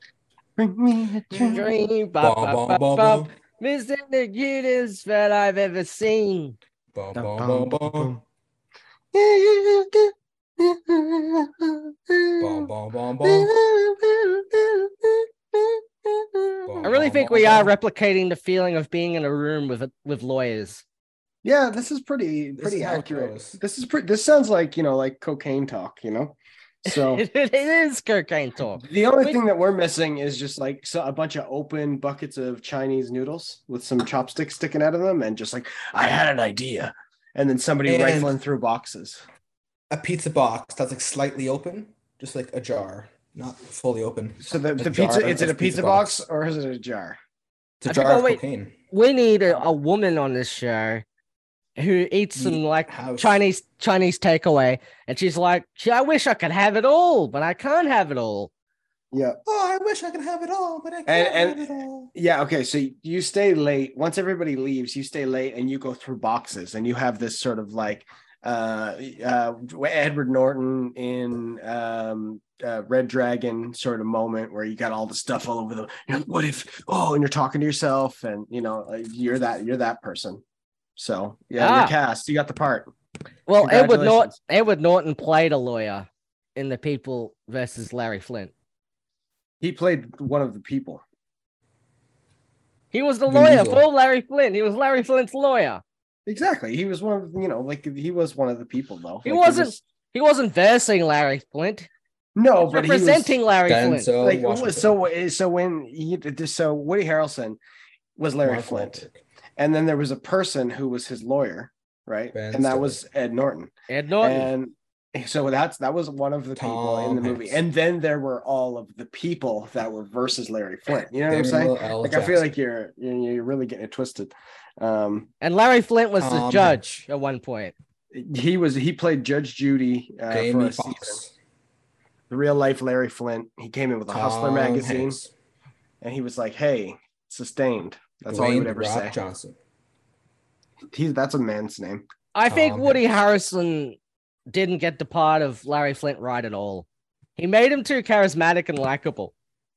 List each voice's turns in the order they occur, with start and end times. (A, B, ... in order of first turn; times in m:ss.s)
0:00.6-0:01.6 A
0:01.4-0:06.6 B
0:02.2-0:03.3 C
0:06.9-0:08.1 C
0:07.1-0:08.2 A
0:09.1-0:12.7 A
0:12.4-0:13.5 C
0:13.2-0:16.9 A
0:16.6-0:17.7 C
0:16.8-0:20.8 B
0:21.4-0:27.2 A
0:22.6-0:23.6 C
0:26.9-0:29.4 B
0:28.8-0:39.2 A
0:37.8-0:38.4 C
0:39.9-0:46.2 C
0:44.4-0:47.2 A
0:47.8-0:48.8 C
0:47.8-0:48.4 B
0:48.9-0:51.0 B
0:51.8-0:58.5 B
0:52.4-0:53.4 C
0:59.1-0:59.4 A
0:59.4-1:02.1 C
1:01.0-1:20.4 A
1:21.0-1:22.9 A
1:21.6-1:21.9 B
1:23.5-1:28.5 B
1:23.6-1:24.3 A
1:29.6-1:31.0 A
1:32.9-1:35.8 B
1:33.3-1:33.8 C
1:36.2-1:39.8 A
1:39.2-1:41.9 B
1:42.4-1:43.4 A
1:42.7-1:44.1 B
1:43.7-1:45.0 C
1:44.2-1:47.6 A
1:48.2-1:49.0 A
1:48.4-1:49.2 C
1:49.6-1:53.7 A
1:52.3-1:53.0 C
1:53.9-1:54.5 B
1:54.2-2:05.3 A
1:56.6-1:57.6 C
2:01.3-2:02.5 C
2:05.4-2:07.7 B
2:06.2-2:06.8 C
2:08.1-2:11.2 A
2:10.3-2:11.3 C
2:12.3-2:15.2 A
2:14.1-2:15.3 C
2:16.0-2:19.1 A
2:18.3-2:19.6 C
2:20.9-2:22.0 A
2:22.3-2:24.0 B
2:22.5-2:23.0 C
2:24.5-2:29.3 B